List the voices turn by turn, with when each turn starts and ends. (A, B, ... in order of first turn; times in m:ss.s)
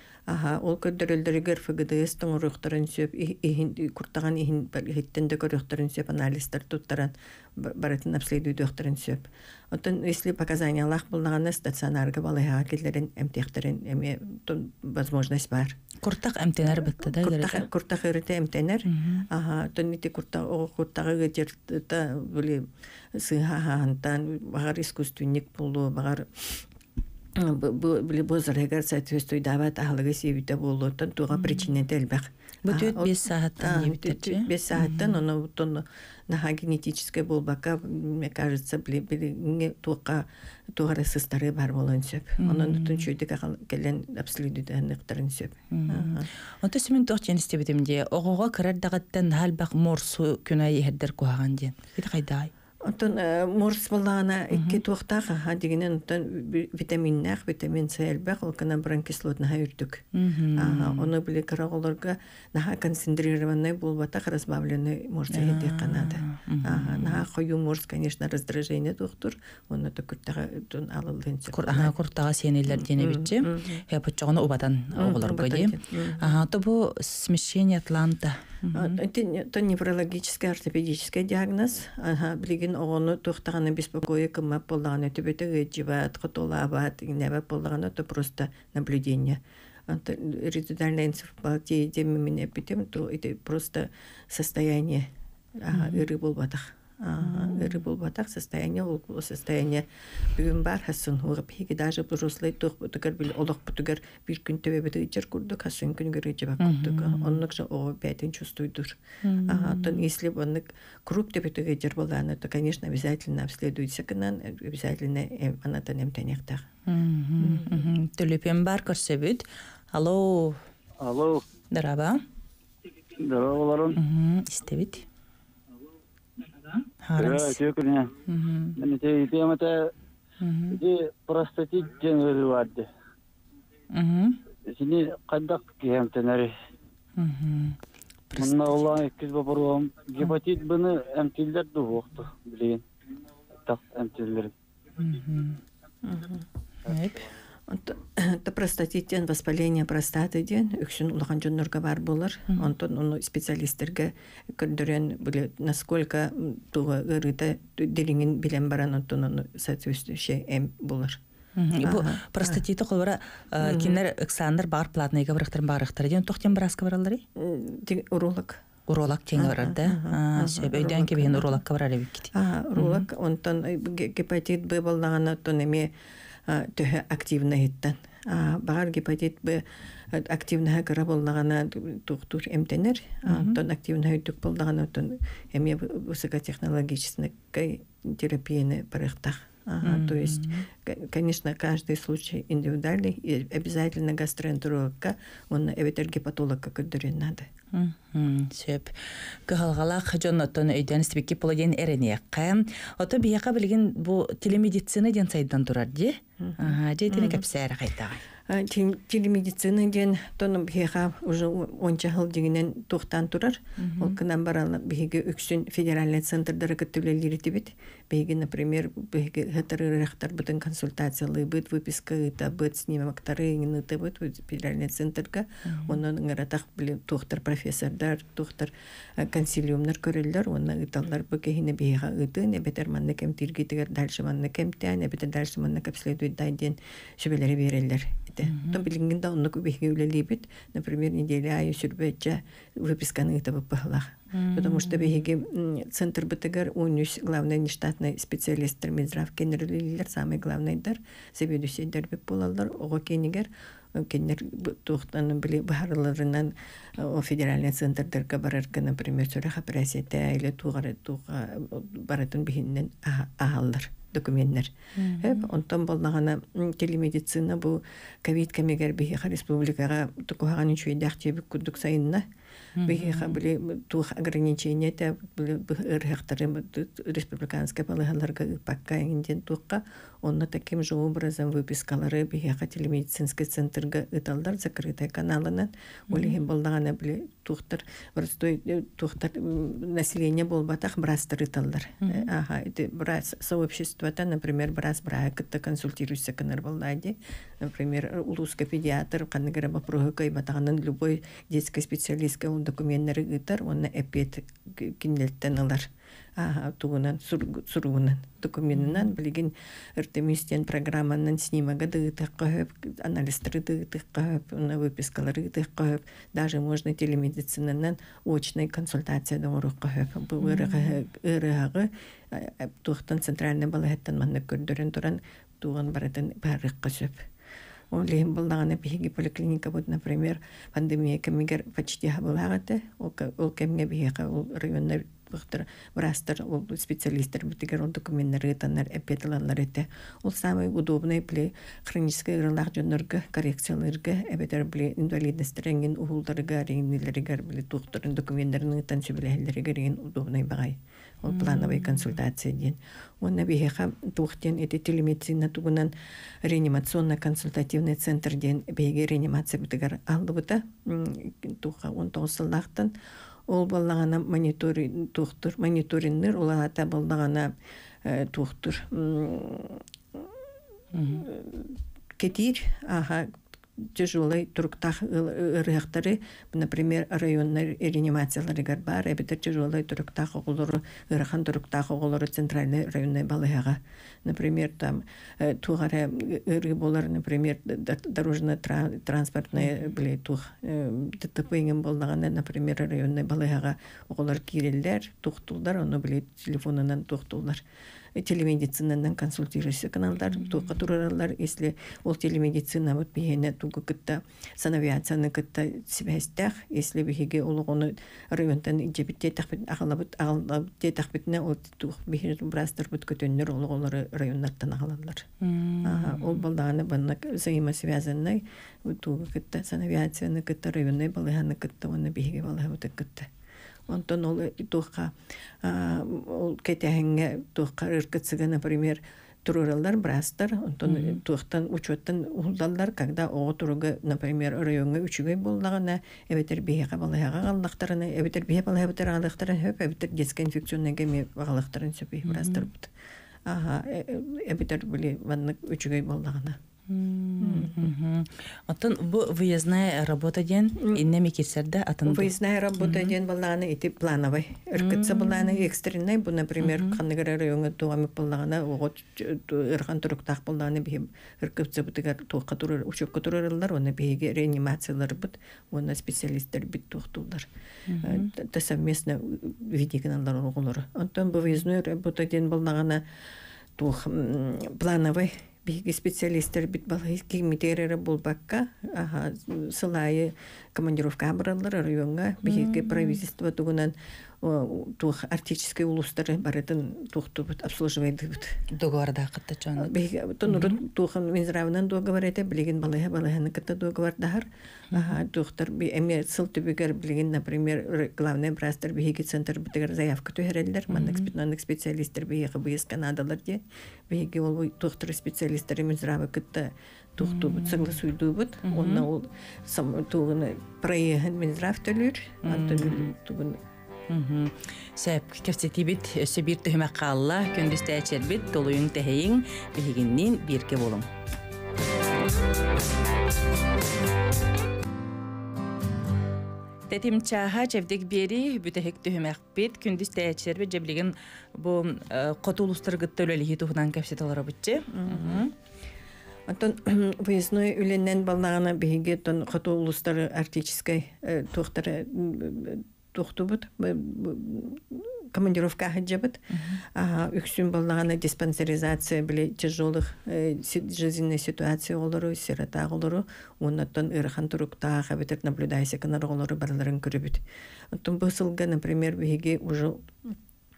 0:00.3-0:15.8 A
0:16.0-0:17.7 B
0:16.7-0:26.7 A
0:18.9-0:19.3 B
0:27.4-0:46.3 A
0:32.7-0:35.2 B
0:42.4-0:43.0 B
0:45.7-0:52.5 B
0:52.8-1:12.0 A
0:54.5-0:54.8 B
1:00.1-1:01.1 B
1:05.3-1:07.2 B
1:11.5-1:19.0 B
1:12.7-1:13.8 A
1:14.9-1:16.4 A
1:18.7-1:35.1 A
1:35.6-1:56.7 A
1:35.7-1:36.0 B
1:37.2-1:37.7 B
1:46.6-1:47.4 B
1:49.2-1:50.0 B
1:56.9-2:00.6 B
1:57.4-1:57.8 A
2:01.0-2:01.4 C
2:01.7-2:02.2 B
2:03.2-2:04.0 C
2:04.0-2:05.1 B
2:07.0-2:07.6 B
2:07.2-2:08.1 C
2:08.3-2:08.8 B
2:08.8-2:09.8 C
2:10.4-2:10.8 B
2:10.7-2:12.9 C
2:13.9-2:14.4 B
2:14.7-2:16.5 C
2:17.2-2:17.8 B
2:18.3-2:18.8 B
2:18.4-2:22.8 C
2:23.6-2:24.5 C
2:25.0-2:25.6 B
2:26.0-2:26.4 A
2:26.9-2:27.3 B
2:27.7-2:41.2 A
2:41.6-2:47.2 B
2:41.8-2:42.6 A
2:43.6-2:44.0 A
2:47.4-2:48.6 A
2:48.9-2:53.1 B
2:49.4-2:51.6 A
2:52.3-2:55.9 A
2:56.5-3:17.5 A
3:03.3-3:03.6 B
3:09.8-3:10.7 B
3:17.7-3:19.0 B
3:19.5-3:28.2 B
3:26.4-3:27.4 A
3:28.5-4:32.3 A
3:33.8-3:34.2 B
3:45.7-3:46.0 B
3:58.4-3:58.8 B
4:04.3-4:05.2 B
4:25.0-4:25.4 B
4:32.8-4:33.4 B
4:32.8-5:27.3 A
4:46.1-4:46.4 B
4:52.0-4:52.3 B
5:08.8-5:09.1 B
5:20.4-5:21.0 B
5:27.9-5:55.9 A
5:51.3-5:52.2 B
5:56.4-6:02.9 A
6:03.5-6:07.5 A
6:08.0-6:10.3 A
6:10.9-6:11.3 B
6:11.2-6:37.6 A
6:38.2-6:55.3 A
6:55.4-6:56.4 B
6:55.8-7:03.3 A
7:03.9-7:22.9 A
7:10.9-7:11.2 B
7:22.2-7:22.7 B
7:23.5-7:26.6 A
7:26.9-7:33.1 B
7:27.4-7:27.8 A
7:30.8-7:31.0 A
7:32.1-7:47.5 A
7:34.8-7:35.6 B
7:36.6-7:37.0 B
7:47.9-7:48.3 B
7:48.0-7:53.0 A
7:53.8-8:08.6 A
8:02.4-8:03.2 B
8:08.7-8:10.0 B
8:09.8-8:33.6 A
8:10.5-8:10.8 B
8:14.9-8:15.2 B
8:20.9-8:21.3 B
8:27.2-8:27.9 B
8:28.6-8:29.1 B
8:32.4-8:33.1 B
8:34.1-8:41.1 B
8:46.9-8:55.5 B
8:54.9-8:55.5 A
8:56.5-9:20.4 A
9:06.5-9:06.8 B